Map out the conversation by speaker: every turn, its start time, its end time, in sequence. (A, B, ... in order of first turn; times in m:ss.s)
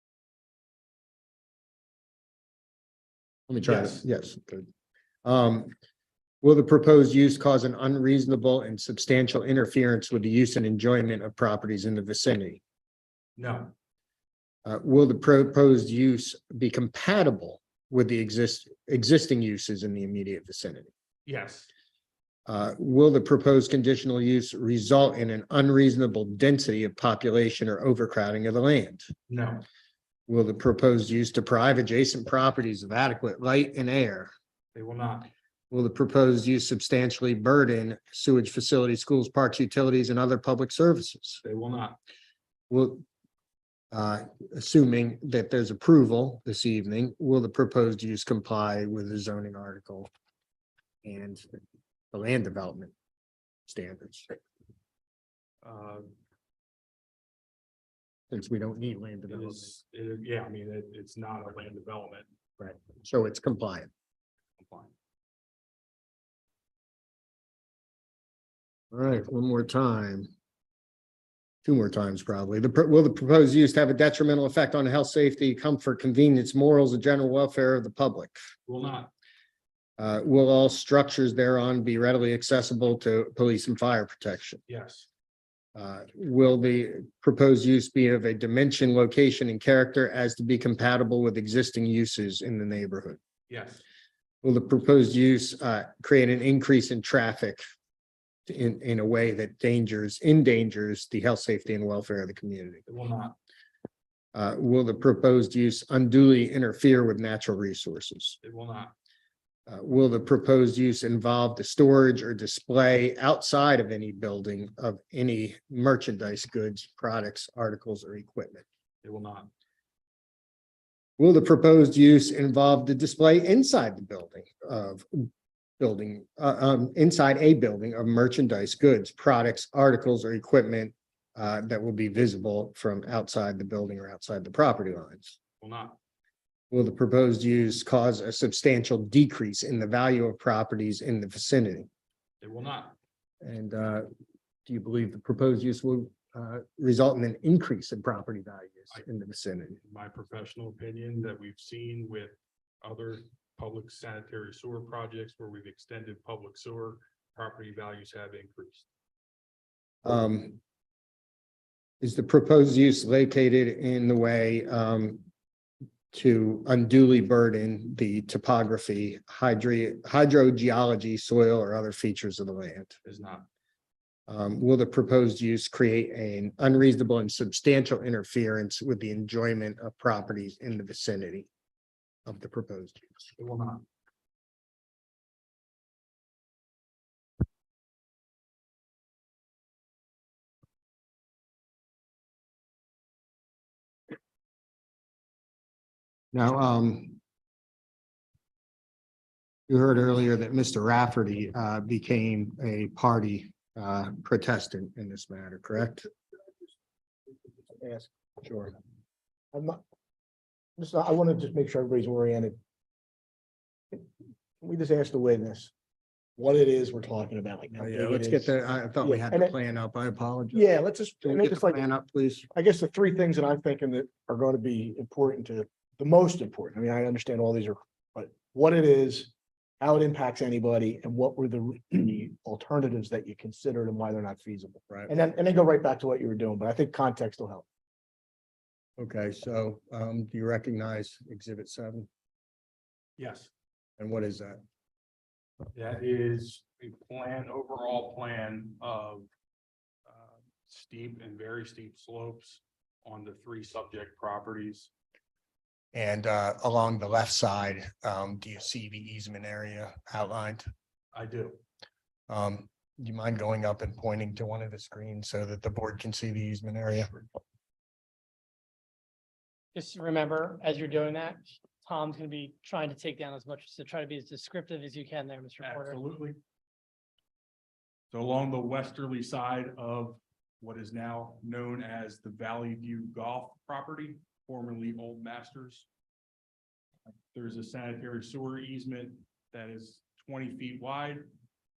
0:03.5-0:04.7 A
0:03.6-0:04.0 B
0:05.2-0:05.7 A
0:06.4-0:12.6 A
0:13.4-0:13.7 B
0:14.6-0:20.9 A
0:21.2-0:21.7 B
0:22.5-0:29.1 A
0:29.3-0:29.6 B
0:30.3-0:34.3 A
0:34.7-0:35.3 B
0:35.7-0:41.4 A
0:41.4-0:42.0 B
0:42.7-0:43.0 A
0:43.9-0:50.1 A
0:51.0-0:51.4 A
0:52.1-0:52.9 A
0:53.7-0:54.3 A
0:55.6-0:56.1 B
0:58.3-0:59.7 A
0:59.3-1:02.3 B
1:02.6-1:03.9 A
1:04.6-1:04.9 B
1:08.9-1:10.3 A
1:11.6-1:18.4 A
1:18.7-1:19.1 B
1:20.0-1:24.6 A
1:24.7-1:25.1 B
1:25.8-1:33.2 A
1:33.5-1:33.8 B
1:34.4-1:37.6 A
1:38.4-1:42.9 A
1:42.9-1:43.4 B
1:44.3-1:48.4 A
1:48.4-1:48.9 B
1:49.7-1:58.6 A
1:59.0-1:59.5 B
2:01.2-2:05.3 A
2:05.8-2:15.4 A
2:15.6-2:16.0 B
2:16.7-2:21.9 A
2:22.4-2:23.0 B
2:23.4-2:24.1 A
2:24.7-2:29.8 A
2:29.8-2:38.9 B
2:40.0-2:40.6 A
2:42.0-2:45.2 A
2:46.1-2:53.0 A
2:53.0-2:53.5 B
2:54.3-3:01.5 A
3:02.2-3:03.1 A
3:03.4-3:03.8 B
3:16.3-3:17.2 A
3:19.7-3:26.1 A
3:27.7-3:28.7 C
3:29.5-3:29.8 C
3:30.8-3:32.6 C
3:34.6-3:35.7 C
3:36.4-3:39.5 C
3:37.8-3:42.5 A
3:40.5-3:41.8 C
3:42.5-3:57.7 C
3:59.0-4:02.1 A
4:03.2-4:03.5 B
4:04.0-4:04.6 A
4:05.7-4:09.3 B
4:10.1-4:14.9 B
4:15.9-4:20.7 A
4:21.1-4:21.6 B
4:22.3-4:27.1 A
4:29.8-4:36.0 D
4:35.6-4:36.4 B
4:38.1-4:45.9 B
4:47.3-4:51.2 B